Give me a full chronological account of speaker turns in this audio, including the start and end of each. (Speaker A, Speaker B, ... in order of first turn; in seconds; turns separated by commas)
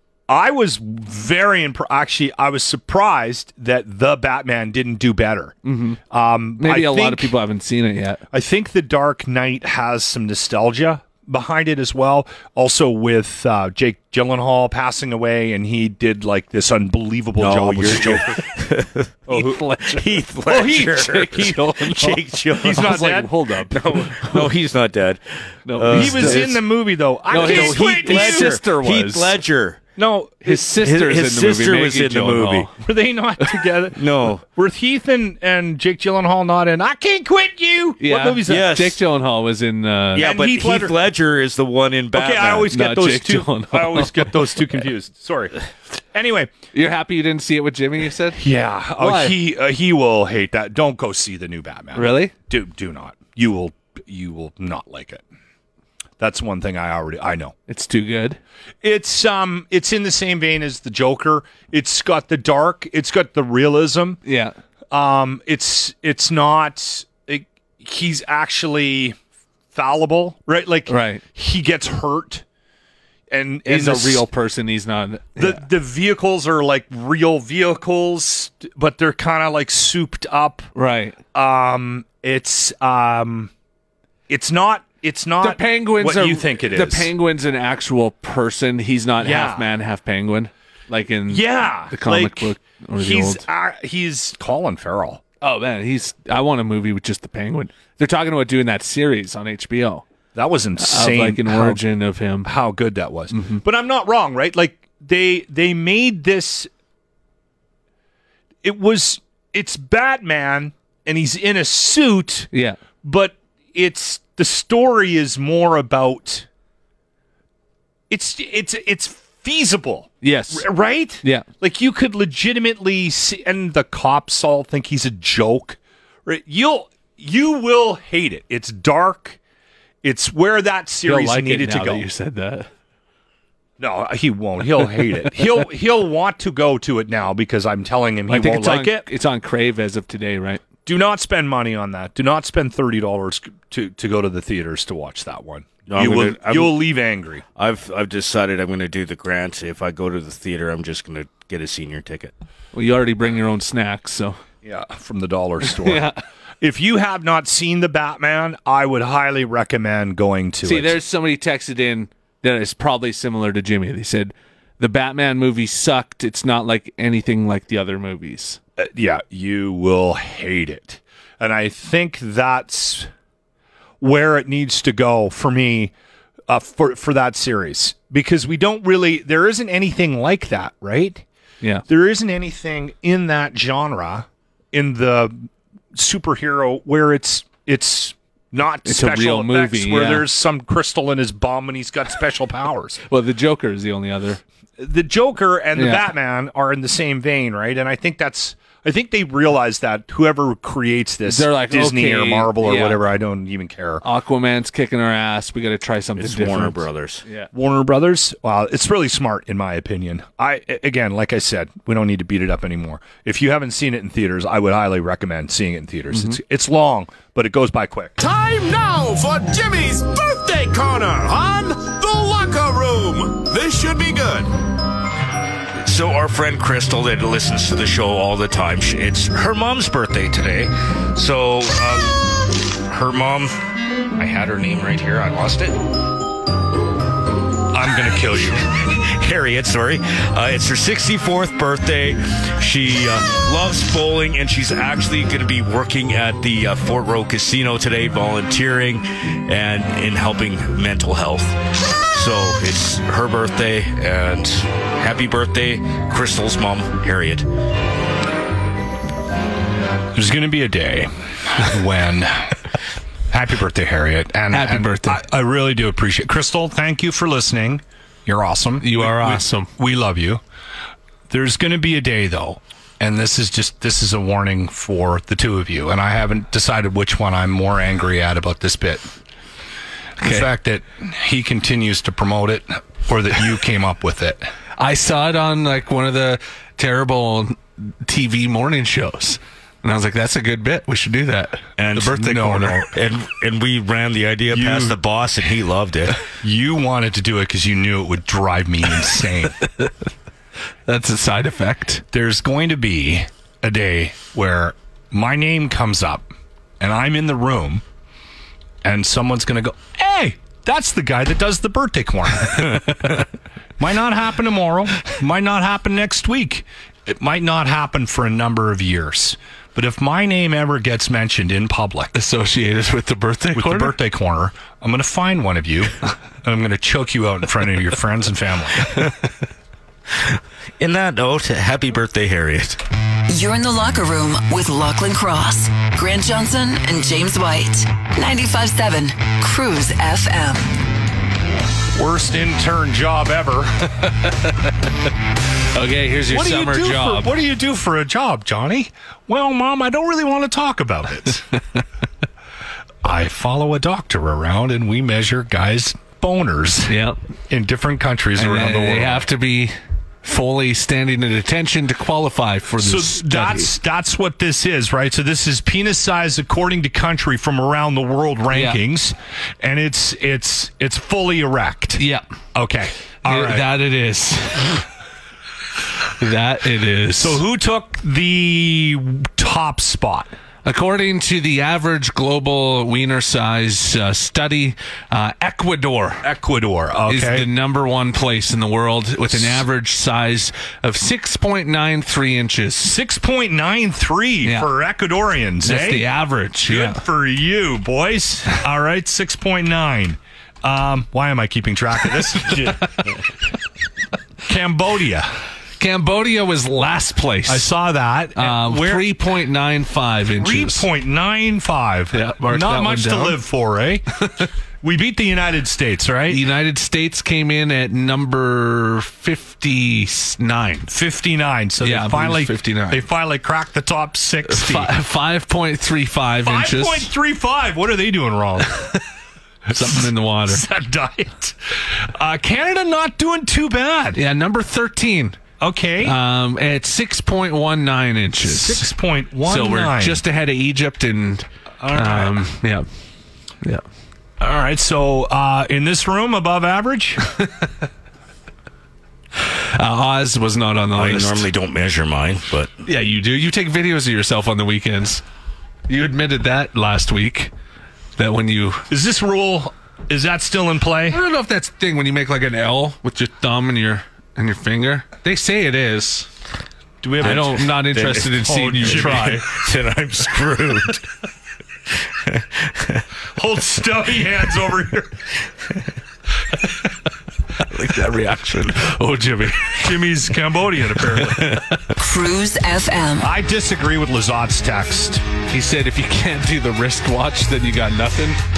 Speaker A: 0.3-5.5, Speaker B: 5.6-6.0, Speaker A: 6.1-7.3, Speaker B: 6.6-8.2, Speaker A: 8.3-18.4, Speaker C: 17.4-23.0, Speaker A: 19.3-19.6, Speaker B: 19.3-24.5, Speaker A: 20.5-21.3, Speaker A: 22.6-23.3, Speaker C: 23.7-26.6, Speaker B: 25.7-26.6, Speaker A: 25.9-28.6, Speaker B: 27.3-29.4, Speaker C: 27.3-29.8, Speaker A: 30.0-30.6, Speaker B: 30.4-32.7, Speaker C: 30.8-32.7, Speaker A: 32.8-38.7, Speaker C: 34.0-34.4, Speaker B: 38.0-40.2, Speaker C: 38.5-39.0, Speaker C: 40.1-42.7, Speaker A: 40.2-41.0, Speaker A: 42.1-45.5, Speaker B: 42.7-44.5, Speaker A: 46.1-46.5, Speaker B: 46.7-48.4, Speaker A: 48.3-55.2, Speaker B: 49.0-49.4, Speaker B: 52.0-52.3, Speaker A: 56.2-57.5, Speaker B: 57.7-58.4, Speaker A: 58.8-64.2, Speaker B: 64.2-64.5, Speaker A: 64.9-69.2, Speaker A: 69.7-72.5, Speaker B: 70.9-71.2, Speaker A: 73.3-74.2, Speaker B: 73.7-75.6, Speaker A: 75.4-80.7, Speaker B: 80.8-81.2, Speaker A: 81.3-83.5, Speaker A: 84.3-87.1, Speaker B: 85.4-93.5, Speaker A: 89.2-89.7, Speaker A: 91.3-95.2, Speaker B: 95.4-100.0, Speaker A: 100.3-101.8, Speaker B: 100.8-102.5, Speaker A: 102.4-106.7, Speaker B: 103.3-103.6, Speaker A: 108.6-112.5, Speaker B: 112.5-112.8, Speaker A: 113.0-116.5, Speaker A: 118.1-129.4, Speaker B: 120.2-120.7, Speaker A: 130.0-132.1, Speaker B: 131.1-132.7, Speaker A: 133.8-139.1, Speaker B: 138.3-140.6, Speaker A: 140.9-147.4, Speaker C: 145.9-146.8, Speaker C: 147.6-152.3, Speaker B: 152.7-154.4, Speaker A: 154.6-156.1, Speaker B: 155.6-156.2, Speaker A: 156.6-161.0, Speaker B: 160.6-168.6, Speaker A: 168.8-173.1, Speaker A: 174.0-175.9, Speaker A: 176.5-181.2, Speaker A: 181.9-193.0, Speaker B: 188.8-190.3, Speaker B: 193.1-194.4, Speaker A: 194.8-204.0, Speaker B: 195.8-196.1, Speaker B: 201.3-203.0, Speaker B: 204.0-207.5, Speaker C: 206.2-207.2, Speaker A: 207.5-218.2, Speaker B: 216.1-216.4, Speaker D: 218.2-224.5, Speaker C: 225.8-232.2, Speaker C: 232.9-233.6, Speaker C: 234.2-235.8, Speaker A: 237.7-238.6, Speaker C: 238.8-251.6, Speaker C: 252.1-257.4, Speaker A: 260.1-262.7, Speaker A: 263.3-270.4, Speaker B: 264.5-265.2, Speaker B: 268.8-269.7, Speaker A: 271.3-279.1, Speaker A: 280.2-284.5, Speaker B: 280.2-280.5, Speaker B: 284.8-292.8, Speaker C: 291.8-296.2, Speaker A: 292.2-292.9, Speaker A: 294.5-295.0, Speaker A: 296.2-299.6, Speaker B: 300.9-302.0, Speaker A: 302.1-306.3, Speaker A: 306.8-307.8, Speaker A: 308.8-313.2, Speaker A: 313.8-322.1, Speaker B: 322.1-324.0, Speaker A: 323.6-328.9, Speaker C: 330.8-332.8, Speaker E: 333.3-340.7, Speaker A: 341.9-343.9, Speaker B: 344.0-344.7, Speaker B: 345.7-347.3, Speaker A: 346.3-351.4, Speaker A: 353.0-356.9, Speaker B: 356.9-357.2, Speaker A: 357.5-359.3, Speaker B: 358.4-363.7, Speaker A: 362.8-372.0, Speaker B: 368.5-368.8, Speaker B: 372.0-372.2, Speaker A: 372.6-373.7, Speaker B: 373.2-374.9, Speaker B: 376.2-377.4, Speaker A: 377.2-380.3, Speaker B: 380.6-386.2, Speaker A: 386.2-387.5, Speaker B: 387.1-392.9, Speaker A: 389.3-389.6, Speaker A: 392.8-396.1, Speaker B: 394.4-394.7, Speaker B: 395.6-397.0, Speaker A: 396.6-403.1, Speaker A: 404.4-405.3, Speaker B: 405.8-407.7, Speaker A: 407.4-409.1, Speaker B: 408.4-410.9, Speaker A: 410.4-414.1, Speaker B: 412.1-413.4, Speaker A: 414.8-416.5, Speaker B: 416.3-420.9, Speaker A: 420.9-424.9, Speaker B: 421.8-423.1, Speaker B: 424.5-427.1, Speaker A: 426.4-428.9, Speaker B: 429.7-430.6, Speaker A: 429.8-434.2, Speaker B: 434.1-435.4, Speaker A: 435.6-436.2, Speaker B: 436.0-438.9, Speaker A: 438.4-440.2, Speaker B: 439.4-442.9, Speaker A: 441.8-442.4, Speaker A: 444.4-447.3, Speaker B: 449.4-451.5, Speaker C: 450.9-452.7, Speaker B: 452.9-455.2, Speaker B: 455.9-457.5, Speaker B: 458.2-458.9, Speaker A: 458.9-461.2, Speaker B: 461.1-466.3, Speaker A: 467.0-469.6, Speaker B: 467.2-469.4, Speaker C: 467.2-471.1, Speaker C: 472.2-473.0, Speaker A: 473.4-475.2, Speaker B: 477.6-479.9, Speaker A: 479.7-481.8, Speaker B: 481.1-481.9, Speaker E: 482.0-483.3, Speaker A: 483.2-485.2, Speaker B: 485.5-488.4